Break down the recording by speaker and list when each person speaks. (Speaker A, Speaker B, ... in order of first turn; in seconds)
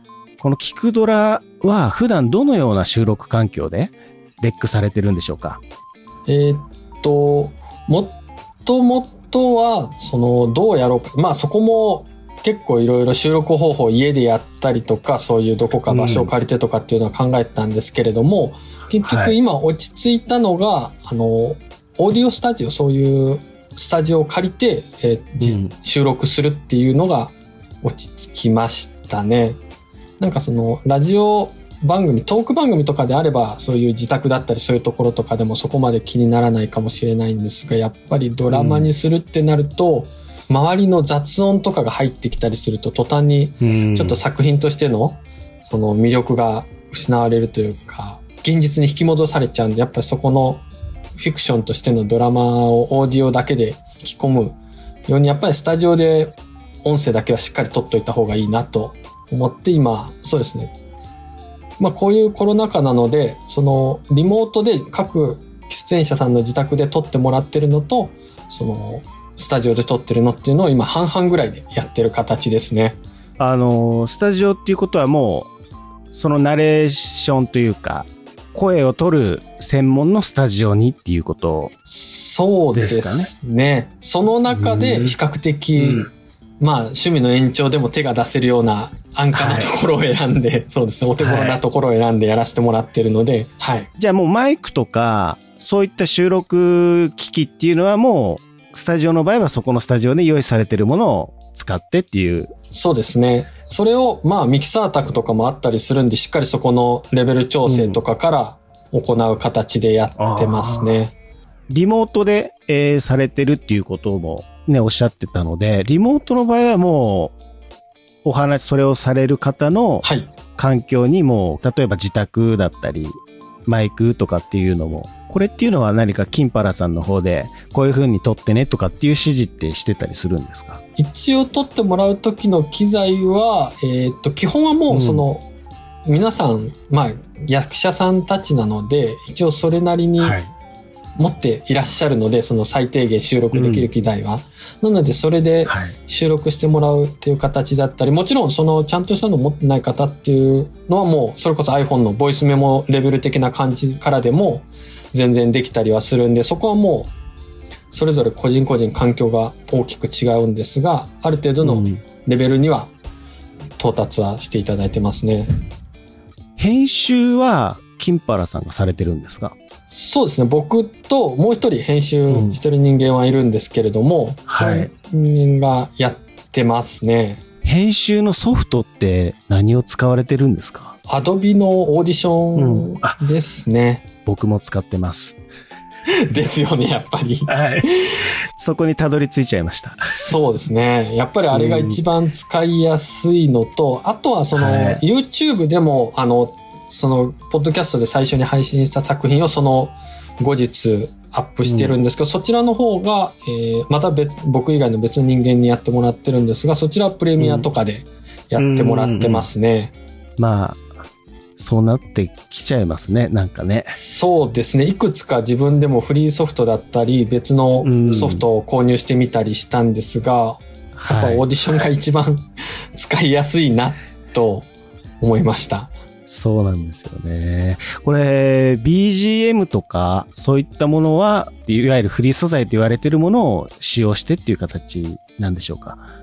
Speaker A: 0.4-5.6, 15.9-16.3, 19.0-19.4, 25.4-25.7, 38.5-38.9, 43.6-44.2, 73.4-75.5, 76.1-81.7, 82.7-83.3, 84.5-85.1, 85.8-86.1, 89.3-89.7, 91.2-91.6, 94.0-102.5, 107.7-108.0, 110.2-111.0, 111.7-117.3, 118.2-130.8, 134.9-135.2, 140.2-140.5, 143.5-143.9, 145.7-145.9, 161.6-162.0, 166.6-169.5, 172.3-172.5, 174.5-174.9, 177.6-180.9, 182.6-183.2, 184.2-185.4, 187.5-187.9, 188.6-190.3, 191.5-192.0, 194.5-195.0, 201.6-201.9, 207.4-207.7, 208.6-209.5, 210.4-210.9, 211.6-213.9, 217.8-218.4, 221.0-221.8, 226.3-236.0
Speaker B: 6.2-29.6, 30.2-50.6, 51.2-60.7, 61.8-73.0, 81.9-86.0, 86.6-93.9, 102.7-111.1, 120.0-120.3, 131.0-135.4, 136.1-140.4, 141.2-157.1, 157.9-162.9, 163.8-165.5, 169.9-177.4, 181.1-184.1, 186.3-187.9, 190.0-209.9, 213.9-224.7, 225.2-225.9